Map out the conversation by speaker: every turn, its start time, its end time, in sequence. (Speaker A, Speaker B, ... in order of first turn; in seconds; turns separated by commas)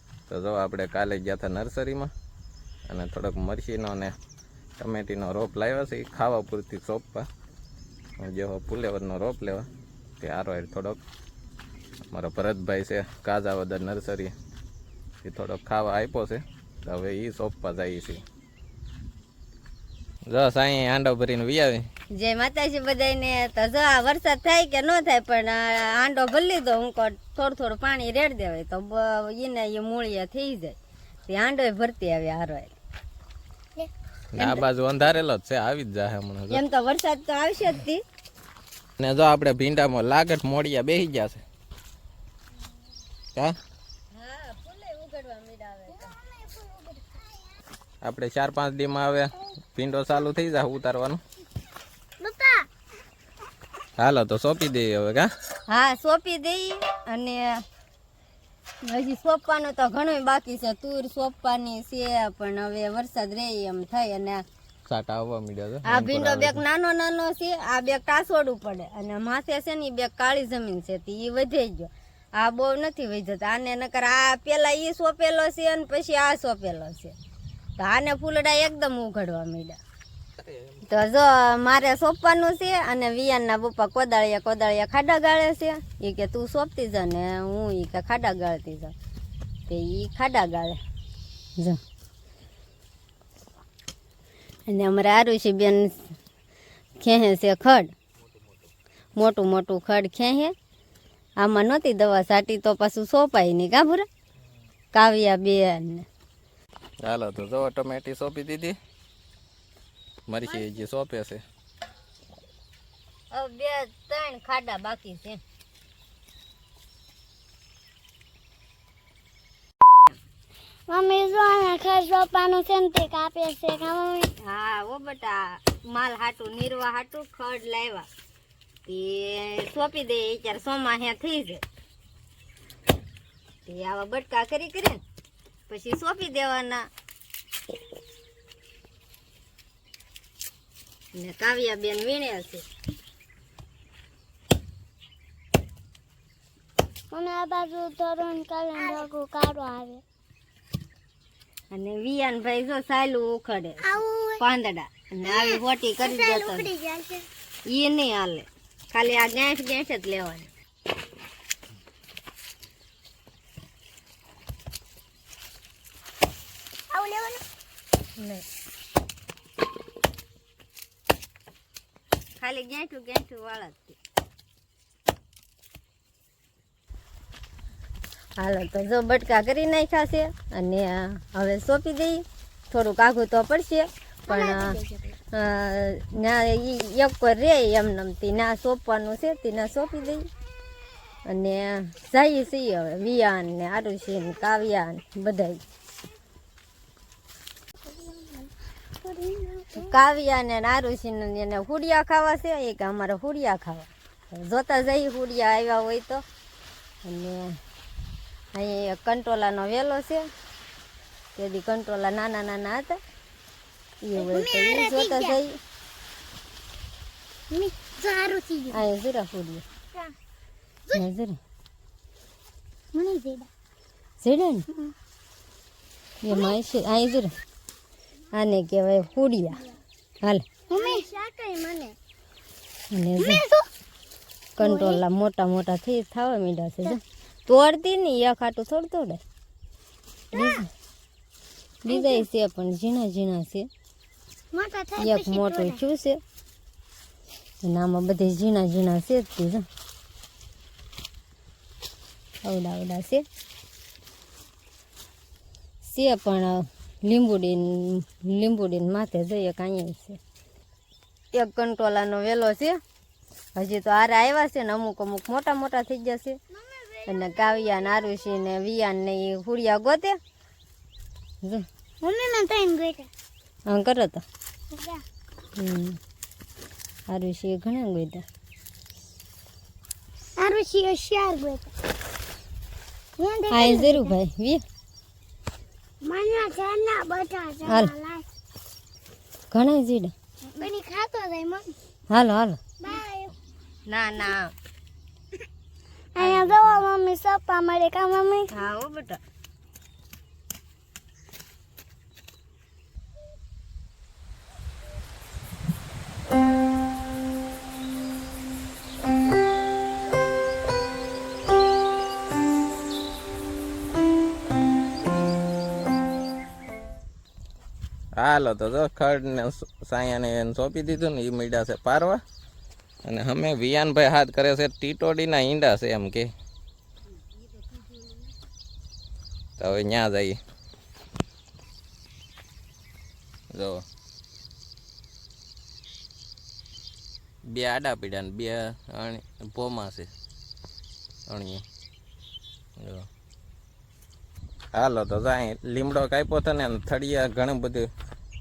Speaker A: 0.3-2.1, Speaker A: 2.9-4.1, Speaker A: 4.8-7.2, Speaker A: 8.2-9.7, Speaker A: 10.2-11.0, Speaker A: 12.1-14.3, Speaker A: 15.2-18.2, Speaker A: 20.3-21.8, Speaker B: 22.1-30.7, Speaker B: 31.3-32.7, Speaker A: 34.4-36.6, Speaker B: 34.4-34.6, Speaker B: 36.5-38.0, Speaker A: 39.0-41.4, Speaker B: 44.1-46.1, Speaker C: 46.0-47.3, Speaker A: 48.0-51.2, Speaker C: 52.2-52.7, Speaker A: 54.0-55.3, Speaker B: 55.7-57.5, Speaker B: 58.8-64.4, Speaker A: 64.9-66.6, Speaker B: 65.8-77.1, Speaker B: 77.8-79.8, Speaker B: 80.9-88.9, Speaker B: 89.7-90.8, Speaker B: 94.7-96.1, Speaker B: 97.0-97.9, Speaker B: 99.2-100.5, Speaker B: 101.4-104.1, Speaker B: 104.9-106.0, Speaker A: 107.0-108.8, Speaker A: 110.3-111.4, Speaker B: 113.3-115.4, Speaker C: 120.9-124.3, Speaker B: 124.4-128.1, Speaker B: 128.9-131.6, Speaker B: 133.7-135.0, Speaker B: 135.7-136.8, Speaker B: 141.1-142.6, Speaker C: 147.1-150.0, Speaker B: 151.7-156.7, Speaker C: 153.8-154.4, Speaker C: 155.2-157.2, Speaker B: 157.7-160.5, Speaker C: 166.9-167.4, Speaker B: 168.2-168.4, Speaker B: 172.4-173.9, Speaker B: 178.4-184.8, Speaker C: 184.3-185.1, Speaker B: 185.3-190.2, Speaker B: 191.3-195.6, Speaker C: 197.9-198.5, Speaker C: 199.0-199.9, Speaker B: 199.7-206.2, Speaker B: 207.0-207.5, Speaker B: 208.5-210.2, Speaker B: 211.3-213.0, Speaker B: 214.0-215.5, Speaker C: 214.2-215.4, Speaker C: 217.5-218.8, Speaker B: 218.7-219.6, Speaker B: 220.9-221.4, Speaker C: 222.9-223.5, Speaker B: 224.2-224.6, Speaker B: 226.2-227.3, Speaker B: 228.3-229.6, Speaker C: 230.7-231.9, Speaker B: 232.9-233.4, Speaker C: 233.2-233.7, Speaker B: 234.6-239.2, Speaker C: 234.6-235.0, Speaker C: 240.3-240.6, Speaker B: 240.3-240.7, Speaker B: 241.8-243.7, Speaker C: 241.9-242.2, Speaker C: 244.5-245.8, Speaker B: 245.0-246.2, Speaker B: 247.6-249.6, Speaker B: 252.4-253.2, Speaker B: 255.8-260.2, Speaker B: 261.3-262.8, Speaker B: 263.6-266.4, Speaker C: 266.6-268.2, Speaker B: 267.1-270.2, Speaker C: 272.0-273.1, Speaker B: 273.7-274.2, Speaker C: 274.7-275.0, Speaker B: 275.6-276.0, Speaker B: 277.1-278.2, Speaker C: 280.4-281.7, Speaker C: 283.2-284.1, Speaker B: 283.5-284.6, Speaker C: 286.0-288.2, Speaker B: 287.6-287.9, Speaker B: 289.5-290.1, Speaker C: 290.5-291.7, Speaker B: 292.1-292.6, Speaker C: 292.8-293.3, Speaker B: 293.9-294.5, Speaker C: 296.1-298.5, Speaker B: 296.2-296.8, Speaker B: 298.5-299.2, Speaker A: 318.2-322.2, Speaker A: 323.1-326.3, Speaker B: 327.6-328.0, Speaker A: 329.6-330.4, Speaker A: 333.5-333.8, Speaker A: 337.4-340.1, Speaker A: 341.3-341.6, Speaker A: 342.8-343.1, Speaker A: 344.7-347.9